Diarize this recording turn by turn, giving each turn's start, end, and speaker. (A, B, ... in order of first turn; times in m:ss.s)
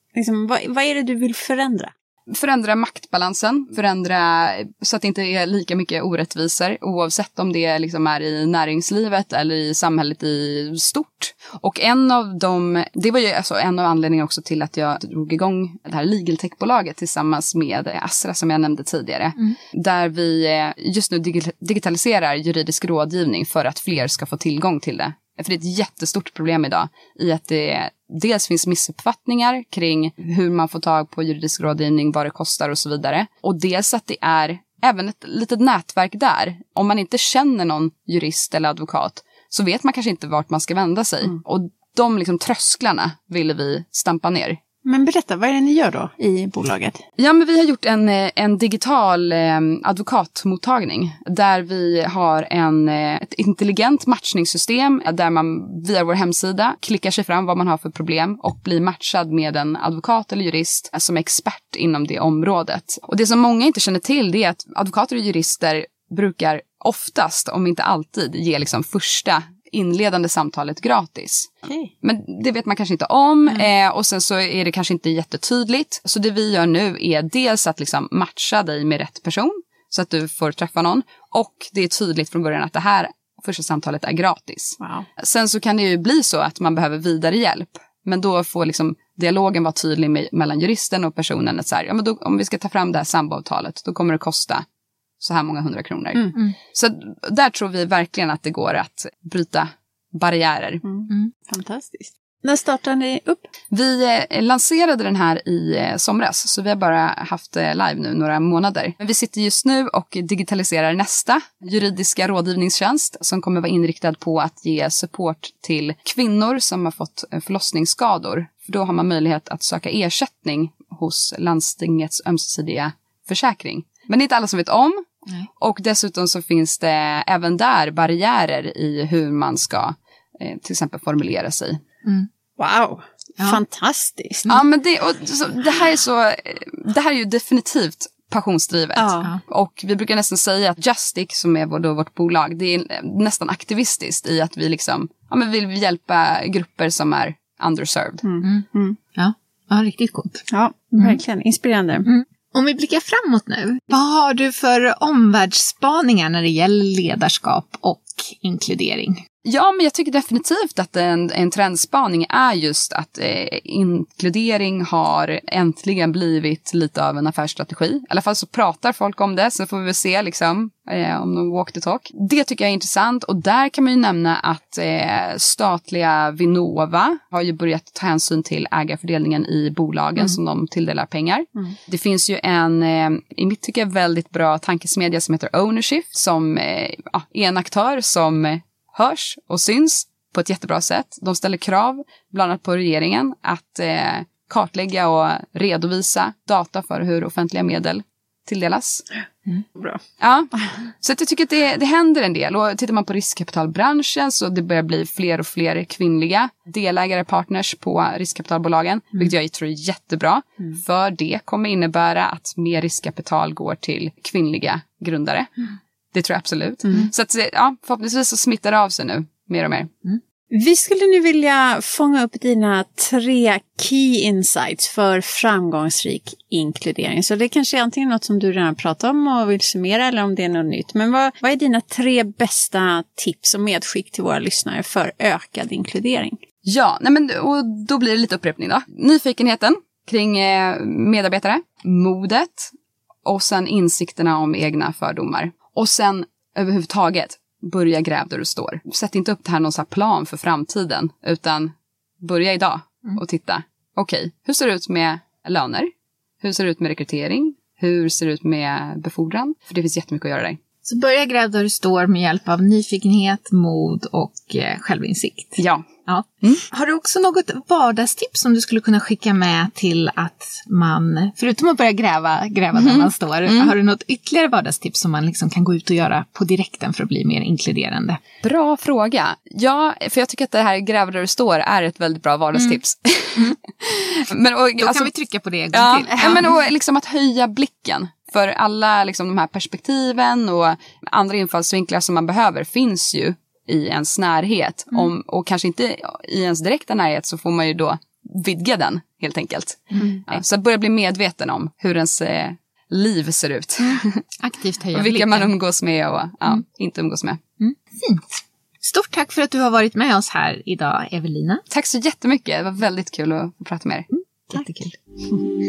0:00.1-0:01.9 A
0:02.3-0:44.6 B
0:44.8-0:47.0 A
0:47.2-1:34.6 B
1:24.8-1:25.0 A
1:35.2-1:40.8 B
1:40.8-1:43.5 A
1:43.7-2:05.0 B
2:05.6-2:11.8 B
2:12.6-2:14.5 A
2:14.5-2:28.2 B
2:19.0-2:19.3 A
2:28.2-2:29.0 A
2:28.4-2:30.4 C
2:30.5-2:32.1 A
2:32.0-2:39.2 C
2:39.4-3:19.1 B
3:19.8-3:20.0 A
3:20.2-3:35.5 B
3:36.1-3:39.9 B
3:40.5-3:56.4 A
3:56.6-4:02.7 B
4:03.2-4:15.9 B
4:16.4-4:20.6 B
4:20.8-4:38.2 C
4:25.6-4:25.8 B
4:32.8-4:33.7 B
4:38.4-4:45.1 B
4:44.8-4:46.6 C
4:45.7-5:04.2 B
4:59.9-5:00.2 C
5:03.8-5:05.5 C
5:04.9-5:07.4 B
5:07.6-5:11.6 C
5:11.7-5:14.6 B
5:14.1-5:14.9 C